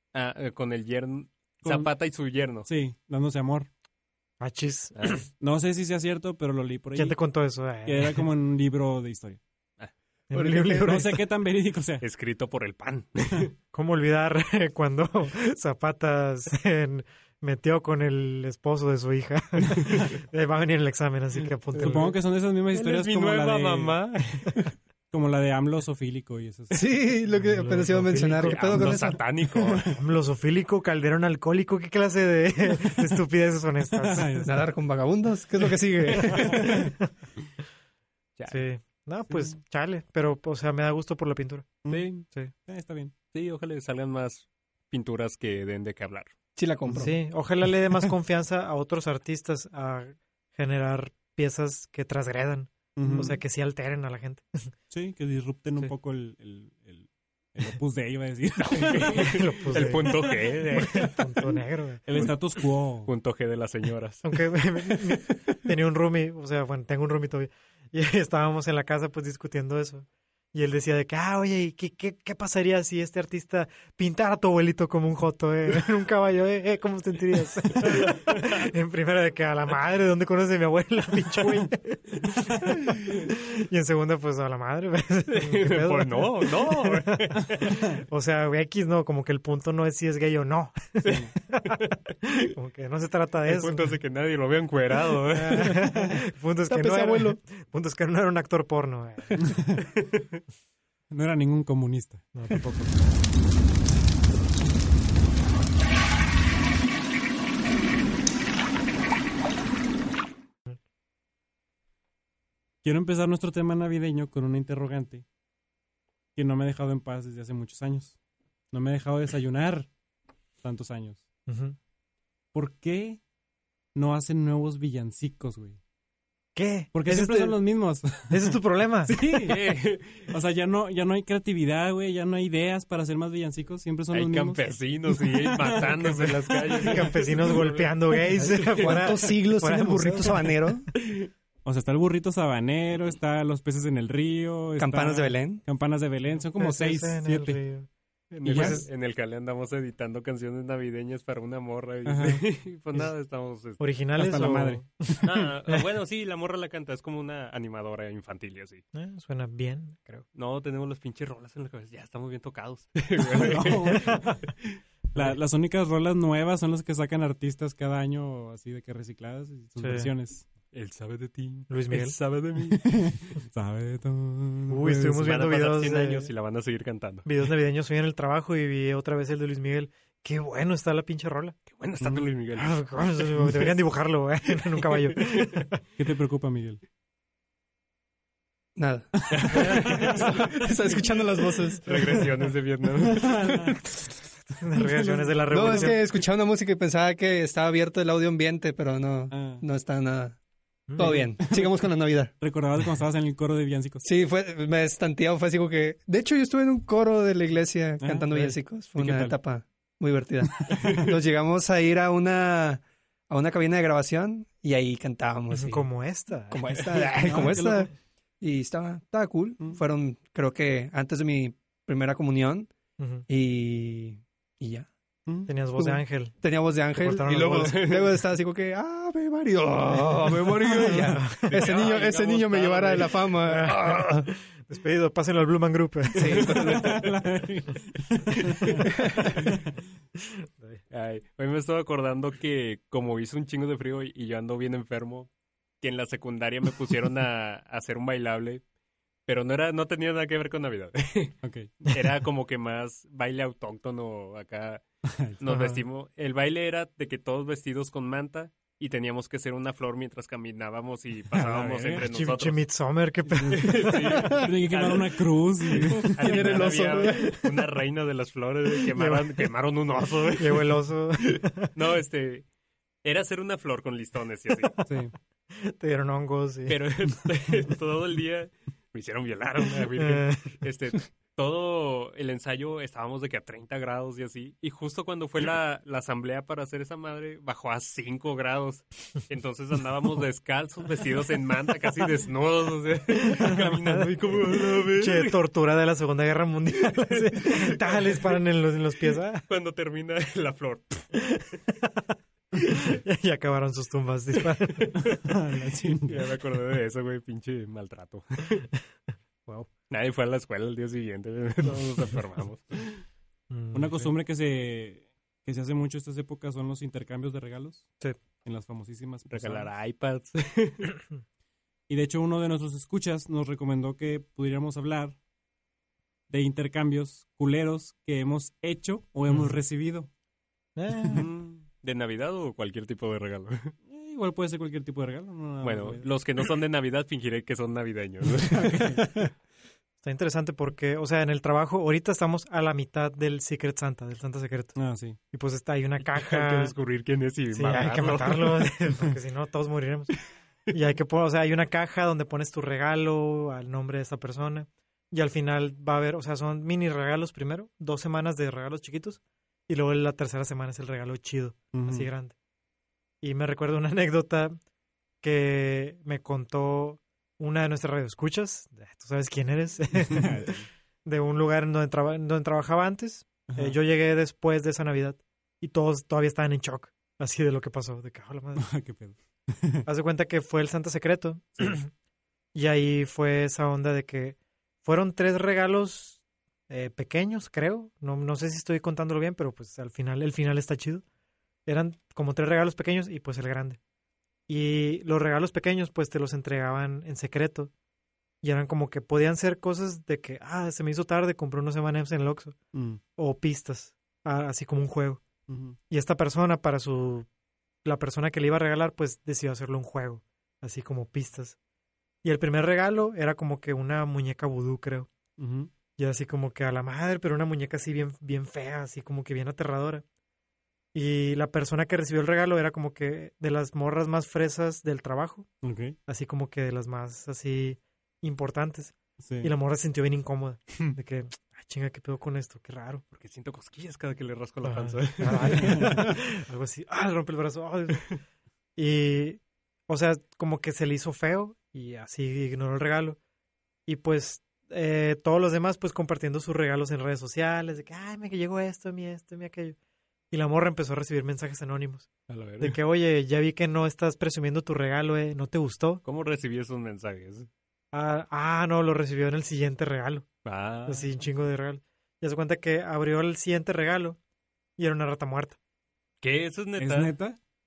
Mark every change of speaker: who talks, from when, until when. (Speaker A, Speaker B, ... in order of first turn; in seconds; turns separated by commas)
Speaker A: 0.1-2.7, Speaker B: 1.6-1.9, Speaker B: 2.7-3.7, Speaker C: 4.4-5.2, Speaker A: 5.0-5.2, Speaker B: 5.4-7.2, Speaker C: 6.9-8.2, Speaker B: 7.8-9.4, Speaker C: 10.3-11.2, Speaker D: 10.3-10.9, Speaker B: 10.8-12.0, Speaker A: 12.0-13.5, Speaker C: 13.7-22.1, Speaker A: 19.8-20.1, Speaker B: 21.8-24.0, Speaker A: 22.7-24.6, Speaker B: 25.1-29.2, Speaker D: 26.7-29.2, Speaker A: 28.4-30.0, Speaker C: 30.0-34.4, Speaker B: 33.9-34.6, Speaker D: 34.5-36.9, Speaker B: 36.1-36.9, Speaker C: 36.3-37.1, Speaker C: 38.5-42.5, Speaker B: 39.3-39.6, Speaker B: 41.9-43.1, Speaker A: 41.9-42.2, Speaker A: 43.3-46.3, Speaker D: 46.6-47.2, Speaker B: 46.9-47.1, Speaker C: 47.0-54.7, Speaker B: 53.0-53.4, Speaker B: 54.9-59.3, Speaker A: 58.6-61.2, Speaker C: 59.0-62.0, Speaker B: 62.1-63.1, Speaker A: 63.0-64.2, Speaker C: 64.2-94.0, Speaker A: 85.3-87.8, Speaker B: 91.0-91.3, Speaker A: 91.0-92.5, Speaker A: 93.5-95.7, Speaker C: 95.3-99.6, Speaker B: 95.9-96.2, Speaker D: 96.7-97.4, Speaker B: 99.4-99.8, Speaker B: 101.1-102.3, Speaker C: 102.3-102.9, Speaker B: 112.8-115.2, Speaker B: 116.4-118.2, Speaker B: 118.7-119.9, Speaker B: 120.6-121.2, Speaker C: 121.5-121.8, Speaker B: 122.5-123.2, Speaker B: 124.0-125.8, Speaker C: 126.5-127.6, Speaker B: 126.9-128.5, Speaker C: 128.3-129.2, Speaker B: 129.1-129.6, Speaker A: 129.4-130.3, Speaker B: 130.3-137.3, Speaker A: 134.1-139.0, Speaker C: 136.0-140.5, Speaker D: 138.5-140.9, Speaker A: 141.0-141.3, Speaker B: 141.7-147.6, Speaker D: 144.8-145.6, Speaker C: 146.4-148.9, Speaker A: 148.4-153.8, Speaker B: 148.5-148.8, Speaker B: 152.1-152.4, Speaker C: 153.8-155.8, Speaker B: 154.2-154.8, Speaker A: 155.2-158.8, Speaker C: 158.9-160.3, Speaker A: 160.3-164.7, Speaker B: 163.4-164.4, Speaker C: 163.9-164.3, Speaker B: 165.1-170.5, Speaker C: 169.8-170.1, Speaker A: 170.7-172.9, Speaker C: 171.7-172.2, Speaker B: 172.8-175.2, Speaker C: 174.7-176.3, Speaker A: 175.1-177.3, Speaker C: 177.3-181.6, Speaker A: 181.7-183.6, Speaker C: 182.6-185.8, Speaker A: 184.9-185.5, Speaker B: 186.0-186.8, Speaker D: 188.8-191.9, Speaker A: 189.3-190.2, Speaker B: 189.3-190.4, Speaker A: 191.9-193.5, Speaker B: 193.0-193.8, Speaker C: 194.6-196.0, Speaker B: 194.7-196.2, Speaker D: 195.5-200.4, Speaker B: 199.3-199.6, Speaker C: 200.9-201.3, Speaker D: 201.0-202.3, Speaker B: 201.0-201.8, Speaker B: 202.3-204.1, Speaker D: 204.0-215.9, Speaker B: 208.0-209.4, Speaker B: 210.7-210.9, Speaker C: 215.5-217.4, Speaker D: 216.5-222.7, Speaker B: 217.2-217.9, Speaker C: 223.0-223.3, Speaker D: 223.3-224.9, Speaker C: 225.5-226.4, Speaker D: 225.8-234.3, Speaker C: 226.9-227.8, Speaker A: 227.3-228.1, Speaker C: 230.6-231.7, Speaker A: 231.4-233.6, Speaker C: 233.4-236.6, Speaker D: 236.2-237.1, Speaker B: 236.3-238.8, Speaker D: 239.0-239.3, Speaker B: 239.4-239.6, Speaker A: 240.9-245.3, Speaker A: 245.8-248.6, Speaker A: 249.3-254.8, Speaker B: 251.4-251.9, Speaker B: 255.1-255.4, Speaker A: 255.4-262.6, Speaker C: 255.4-255.8, Speaker B: 261.3-262.1, Speaker C: 262.0-264.4, Speaker B: 263.3-266.7, Speaker A: 263.5-270.8, Speaker D: 265.9-267.5, Speaker C: 268.9-269.4, Speaker C: 270.4-271.7, Speaker A: 271.3-272.5, Speaker A: 273.0-274.8, Speaker B: 274.9-275.1, Speaker C: 275.5-276.8, Speaker A: 276.7-295.4, Speaker C: 280.0-280.6, Speaker C: 293.2-299.4, Speaker A: 297.1-298.3, Speaker A: 299.5-301.2, Speaker C: 301.3-301.9, Speaker C: 302.6-305.2, Speaker B: 305.0-306.3, Speaker A: 306.1-308.7, Speaker A: 309.9-313.0, Speaker C: 313.5-314.1, Speaker B: 313.7-317.9, Speaker B: 318.4-319.7, Speaker A: 319.3-320.9, Speaker B: 321.9-325.2, Speaker B: 326.3-330.1, Speaker C: 329.3-329.6, Speaker C: 330.8-331.3, Speaker A: 331.1-333.7, Speaker B: 333.9-336.1, Speaker A: 335.6-339.0, Speaker B: 338.5-339.2, Speaker C: 340.0-344.8, Speaker B: 344.8-345.2, Speaker C: 345.3-346.8, Speaker A: 346.1-348.7, Speaker C: 347.5-362.4, Speaker B: 361.7-362.1, Speaker C: 363.2-364.6, Speaker C: 365.2-370.5, Speaker B: 370.0-370.7, Speaker C: 371.1-378.7, Speaker B: 373.5-373.8, Speaker B: 378.6-379.9, Speaker C: 379.9-381.9, Speaker C: 382.5-391.0, Speaker C: 391.7-393.8, Speaker C: 394.5-397.7, Speaker C: 398.4-402.6, Speaker B: 402.7-403.0, Speaker C: 403.2-405.2, Speaker B: 405.5-405.8, Speaker C: 405.9-407.3, Speaker C: 407.8-411.6, Speaker C: 412.2-415.1, Speaker B: 415.4-415.7, Speaker C: 416.0-420.0, Speaker C: 420.9-425.5, Speaker B: 425.6-426.0, Speaker C: 426.1-433.0, Speaker B: 429.2-429.5, Speaker A: 433.1-435.9, Speaker C: 434.6-438.1, Speaker B: 435.4-436.1, Speaker C: 438.8-443.2, Speaker C: 443.9-449.8, Speaker C: 450.3-456.0, Speaker A: 452.3-452.8, Speaker A: 456.1-457.5, Speaker C: 457.9-460.3, Speaker A: 460.4-461.1, Speaker C: 460.9-464.2, Speaker C: 464.8-465.6, Speaker A: 466.2-467.1, Speaker B: 466.8-467.4